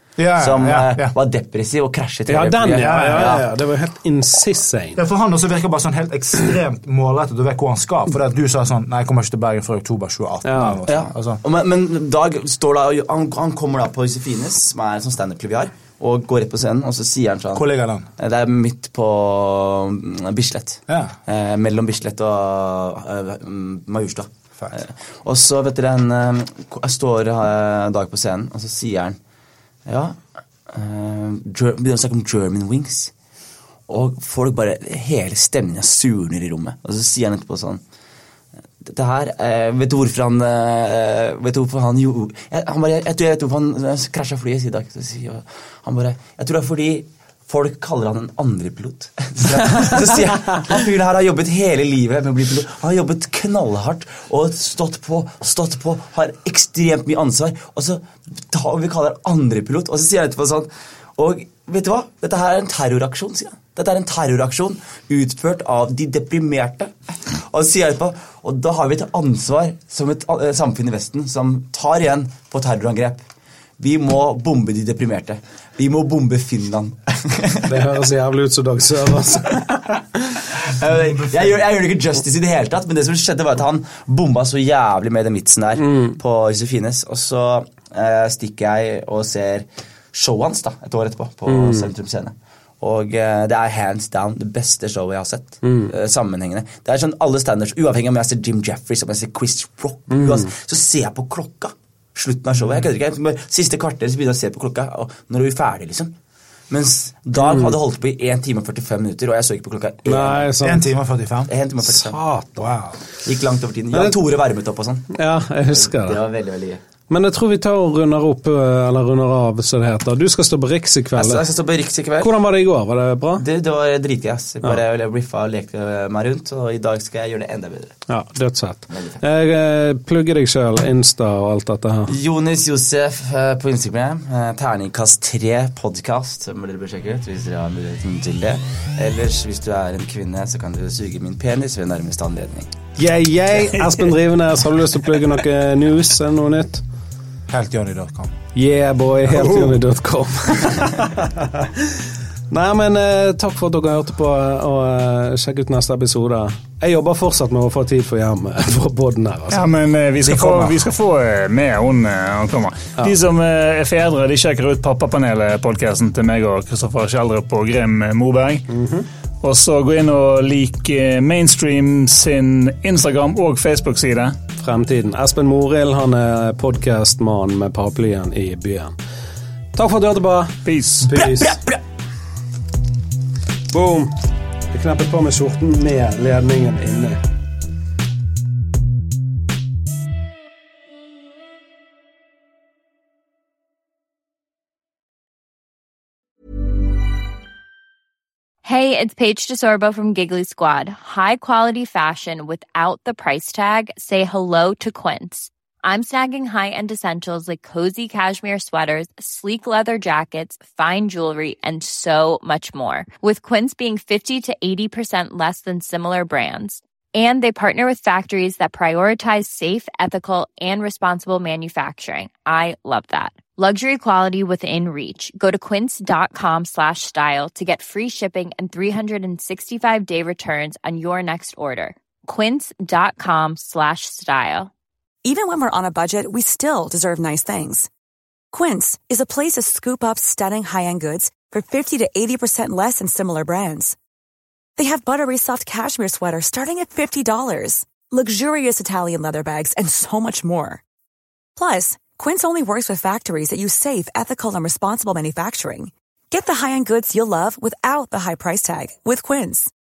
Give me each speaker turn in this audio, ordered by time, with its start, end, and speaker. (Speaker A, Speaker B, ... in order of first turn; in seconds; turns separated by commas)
Speaker A: 0.2-1.1, Speaker B: 0.4-3.4, Speaker C: 2.3-5.0, Speaker A: 2.8-3.4, Speaker A: 5.0-11.4, Speaker C: 10.4-10.8, Speaker B: 10.9-29.2, Speaker A: 17.5-18.1, Speaker A: 20.9-21.1, Speaker B: 29.9-33.1, Speaker B: 33.9-37.8, Speaker B: 38.8-73.2, Speaker B: 73.8-77.7, Speaker C: 77.7-79.8, Speaker B: 80.6-106.1, Speaker C: 85.8-86.2, Speaker C: 91.5-91.9, Speaker C: 95.6-95.9, Speaker C: 100.1-100.5, Speaker B: 106.7-110.5, Speaker C: 107.4-107.7, Speaker C: 110.0-110.9, Speaker A: 110.6-111.5, Speaker B: 111.5-112.2, Speaker C: 111.8-112.7, Speaker A: 112.5-113.0, Speaker B: 113.2-115.1, Speaker C: 115.1-116.2, Speaker B: 115.7-116.8, Speaker C: 117.1-121.4, Speaker B: 121.2-122.3, Speaker C: 122.2-123.4, Speaker B: 123.4-128.0, Speaker C: 128.1-132.1, Speaker B: 128.9-129.2, Speaker B: 132.1-142.7, Speaker C: 143.0-146.8, Speaker A: 147.5-148.3, Speaker C: 148.5-151.7, Speaker A: 149.3-149.7, Speaker C: 152.5-159.6, Speaker D: 159.5-168.7, Speaker A: 160.2-160.8, Speaker C: 168.7-169.1, Speaker D: 169.4-174.4, Speaker C: 174.6-178.9, Speaker C: 179.7-181.6, Speaker D: 180.6-181.1, Speaker B: 181.3-181.8, Speaker C: 183.7-184.1, Speaker C: 184.7-187.2, Speaker E: 198.6-234.7, Speaker F: 235.2-237.9, Speaker F: 238.5-243.9, Speaker F: 244.8-250.8, Speaker F: 251.6-259.7